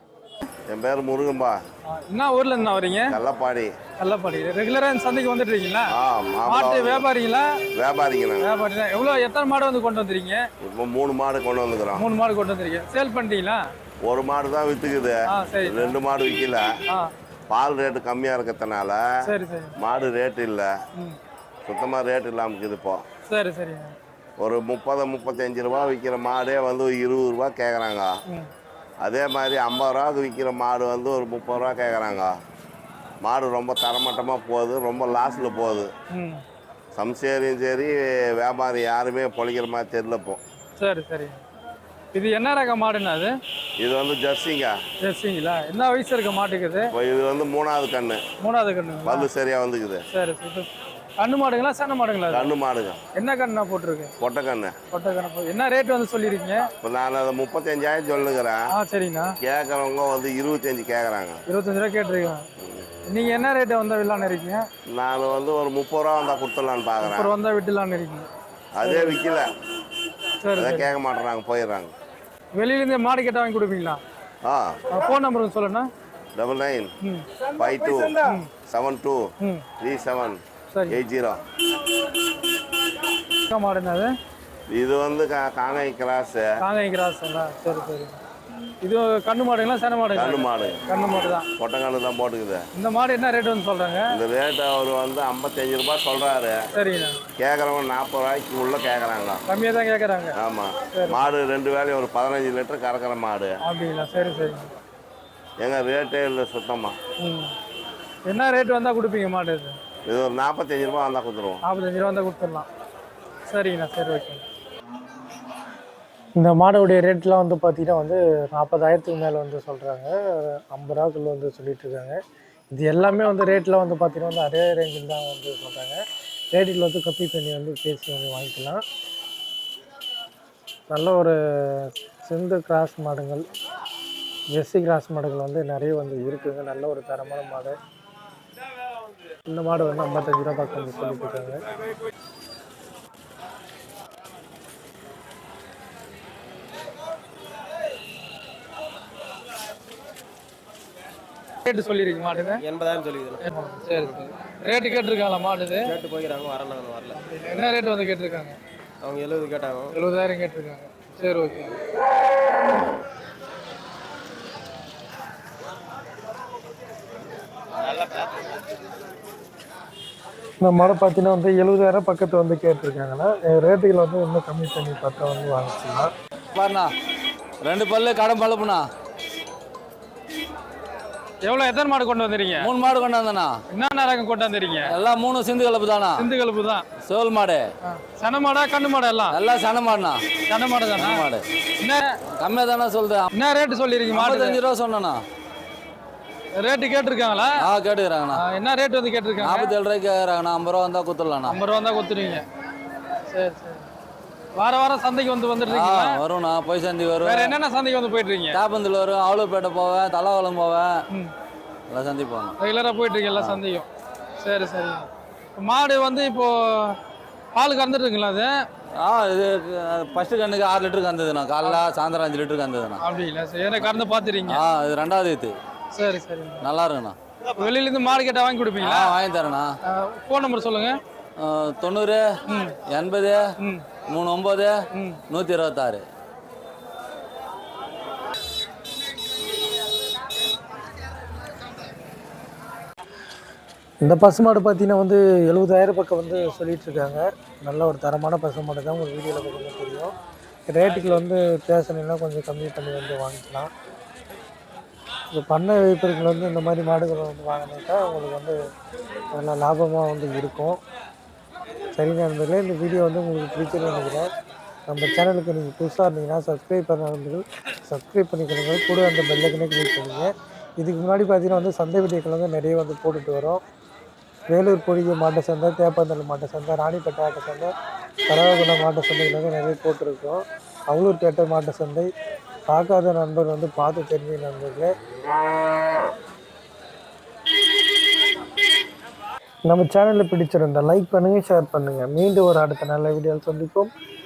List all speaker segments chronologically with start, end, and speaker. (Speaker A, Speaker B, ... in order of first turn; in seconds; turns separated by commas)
Speaker A: 0.7-1.6, Speaker B: 1.9-3.2, Speaker A: 3.1-3.7, Speaker B: 4.0-5.9, Speaker A: 5.9-7.0, Speaker B: 6.5-7.5, Speaker A: 7.8-8.4, Speaker B: 8.4-10.4, Speaker A: 10.6-12.1, Speaker B: 12.0-13.7, Speaker A: 14.1-16.7, Speaker B: 15.3-16.0, Speaker A: 17.5-19.0, Speaker B: 19.2-19.7, Speaker A: 19.8-20.7, Speaker A: 21.7-23.0, Speaker B: 23.3-23.9, Speaker A: 24.4-28.1, Speaker A: 29.0-32.3, Speaker A: 33.2-35.9, Speaker B: 36.1-36.4, Speaker A: 37.0-40.4, Speaker B: 40.8-41.4, Speaker B: 42.1-43.3, Speaker A: 43.8-44.8, Speaker B: 45.0-46.9, Speaker A: 46.9-48.2, Speaker B: 48.4-49.3, Speaker A: 49.1-50.0, Speaker B: 50.1-50.7, Speaker B: 51.2-52.5, Speaker A: 52.3-53.0, Speaker B: 53.2-54.1, Speaker A: 54.2-54.7, Speaker B: 54.9-56.7, Speaker A: 56.8-58.6, Speaker B: 58.7-59.3, Speaker A: 59.4-61.4, Speaker B: 61.5-62.4, Speaker B: 63.1-64.6, Speaker A: 64.9-67.3, Speaker B: 67.0-68.3, Speaker A: 68.8-69.5, Speaker B: 68.8-69.2, Speaker B: 70.4-70.9, Speaker A: 70.6-71.9, Speaker B: 72.6-74.0, Speaker A: 74.4-74.8, Speaker B: 74.9-75.9, Speaker A: 76.4-76.9, Speaker A: 77.6-79.2, Speaker B: 78.2-78.5, Speaker A: 79.8-81.4, Speaker B: 80.7-81.0, Speaker B: 83.5-84.1, Speaker A: 84.7-86.5, Speaker B: 86.6-88.2, Speaker B: 88.8-91.5, Speaker A: 90.1-90.8, Speaker A: 91.6-92.6, Speaker B: 92.8-94.1, Speaker A: 94.1-96.6, Speaker B: 96.7-97.2, Speaker A: 97.4-99.4, Speaker B: 99.5-100.4, Speaker A: 100.4-103.6, Speaker B: 100.9-101.3, Speaker B: 103.6-104.7, Speaker A: 105.6-107.0, Speaker B: 107.2-107.5, Speaker B: 108.3-109.8, Speaker A: 110.1-111.6, Speaker B: 111.6-112.7, Speaker B: 113.5-114.4, Speaker C: 116.4-122.2, Speaker C: 122.8-126.0, Speaker C: 126.5-128.8, Speaker C: 130.9-133.4, Speaker C: 134.6-137.8, Speaker C: 139.5-141.6, Speaker B: 151.6-152.6, Speaker D: 152.6-153.4, Speaker B: 153.4-155.9, Speaker D: 155.9-157.3, Speaker B: 157.3-158.6, Speaker D: 159.0-159.9, Speaker B: 159.9-161.8, Speaker C: 170.6-176.1, Speaker E: 176.6-176.9, Speaker E: 177.6-178.8, Speaker B: 181.4-182.7, Speaker E: 182.6-183.5, Speaker B: 183.7-184.9, Speaker E: 184.9-186.3, Speaker B: 186.2-186.8, Speaker E: 187.1-187.7, Speaker B: 187.8-189.4, Speaker E: 189.3-190.2, Speaker B: 190.5-191.2, Speaker E: 191.0-191.4, Speaker B: 191.8-192.2, Speaker E: 192.4-193.3, Speaker B: 193.3-194.6, Speaker E: 194.1-195.2, Speaker B: 196.6-197.5, Speaker E: 197.6-198.4, Speaker B: 198.3-199.7, Speaker E: 199.4-201.6, Speaker B: 201.5-202.4, Speaker B: 203.3-203.9, Speaker B: 204.6-206.2, Speaker E: 205.7-207.6, Speaker B: 207.2-208.6, Speaker E: 208.5-210.9, Speaker E: 211.9-212.6, Speaker B: 212.6-213.9, Speaker E: 213.3-213.6, Speaker B: 214.4-217.0, Speaker B: 217.6-218.6, Speaker E: 219.0-223.0, Speaker B: 223.0-224.6, Speaker E: 224.5-225.5, Speaker B: 225.9-226.6, Speaker E: 226.6-227.2, Speaker B: 227.5-229.1, Speaker E: 228.8-229.7, Speaker B: 229.8-231.0, Speaker E: 231.4-232.2, Speaker B: 232.5-232.8, Speaker E: 232.9-233.4, Speaker B: 233.6-233.9, Speaker E: 234.1-234.7, Speaker B: 234.9-235.2, Speaker E: 235.3-236.0, Speaker C: 244.0-250.1, Speaker C: 250.7-253.7, Speaker C: 255.3-258.6, Speaker C: 259.3-260.8, Speaker C: 262.0-264.3, Speaker C: 264.9-273.6, Speaker C: 274.5-277.7, Speaker C: 278.3-282.1, Speaker C: 282.7-284.9, Speaker C: 289.7-293.9